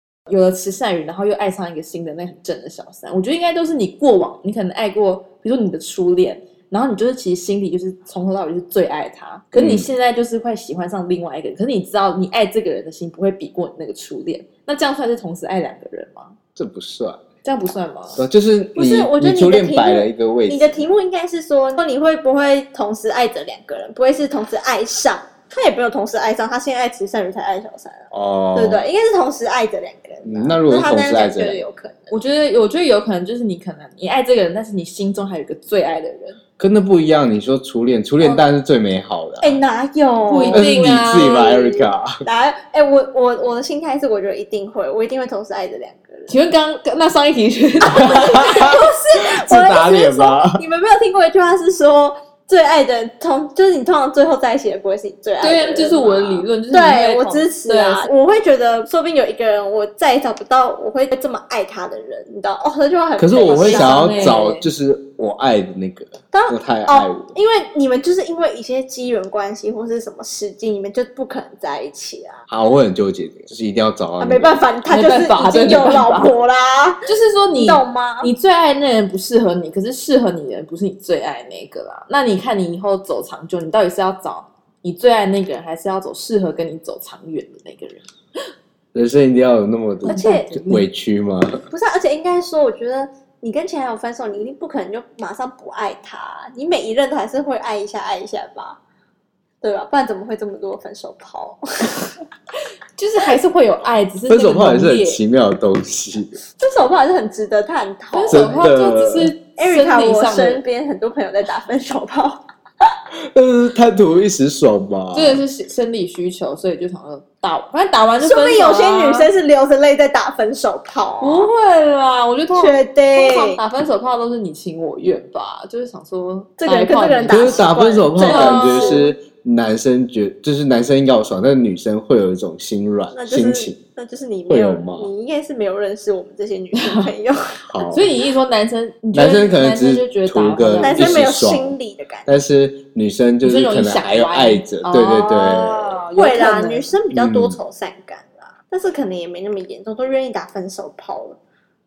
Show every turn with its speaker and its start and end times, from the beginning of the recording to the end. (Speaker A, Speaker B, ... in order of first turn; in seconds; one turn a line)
Speaker A: 0.3-16.4
Speaker B: 9.5-9.9
Speaker B: 16.6-17.2
Speaker A: 17.4-18.2
Speaker B: 18.2-20.9
Speaker C: 18.8-32.1
Speaker B: 28.1-28.8
Speaker B: 30.2-31.6
Speaker A: 32.1-36.4
Speaker B: 36.6-39.6
Speaker C: 39.4-46.3
Speaker A: 40.3-41.5
Speaker B: 40.5-42.1
Speaker A: 46.3-48.9
Speaker B: 48.0-48.7
Speaker C: 48.0-64.4
Speaker B: 49.4-50.6
Speaker A: 55.4-58.1
Speaker B: 63.2-67.3
Speaker A: 63.5-64.7
Speaker C: 66.3-72.4
Speaker B: 72.5-74.6
Speaker C: 74.2-78.3
Speaker A: 74.9-76.3
Speaker A: 77.1-88.1
Speaker B: 88.9-91.6
Speaker A: 90.0-90.8
Speaker C: 90.1-90.6
Speaker C: 91.7-98.8
Speaker C: 99.6-102.1
Speaker A: 103.0-105.2
Speaker B: 104.3-106.4
Speaker C: 106.6-108.6
Speaker A: 108.1-110.6
Speaker B: 108.3-109.3
Speaker C: 109.6-112.4
Speaker B: 113.1-115.4
Speaker A: 115.1-119.3
Speaker C: 118.2-121.5
Speaker A: 121.2-127.7
Speaker C: 122.5-123.6
Speaker C: 126.6-129.1
Speaker B: 127.3-133.8
Speaker A: 128.2-129.1
Speaker C: 133.1-138.0
Speaker B: 134.5-135.1
Speaker A: 136.8-137.1
Speaker B: 137.7-138.1
Speaker A: 137.9-141.2
Speaker B: 139.1-141.8
Speaker C: 140.8-142.3
Speaker B: 142.3-146.0
Speaker A: 143.4-146.9
Speaker C: 146.2-151.4
Speaker B: 147.1-147.6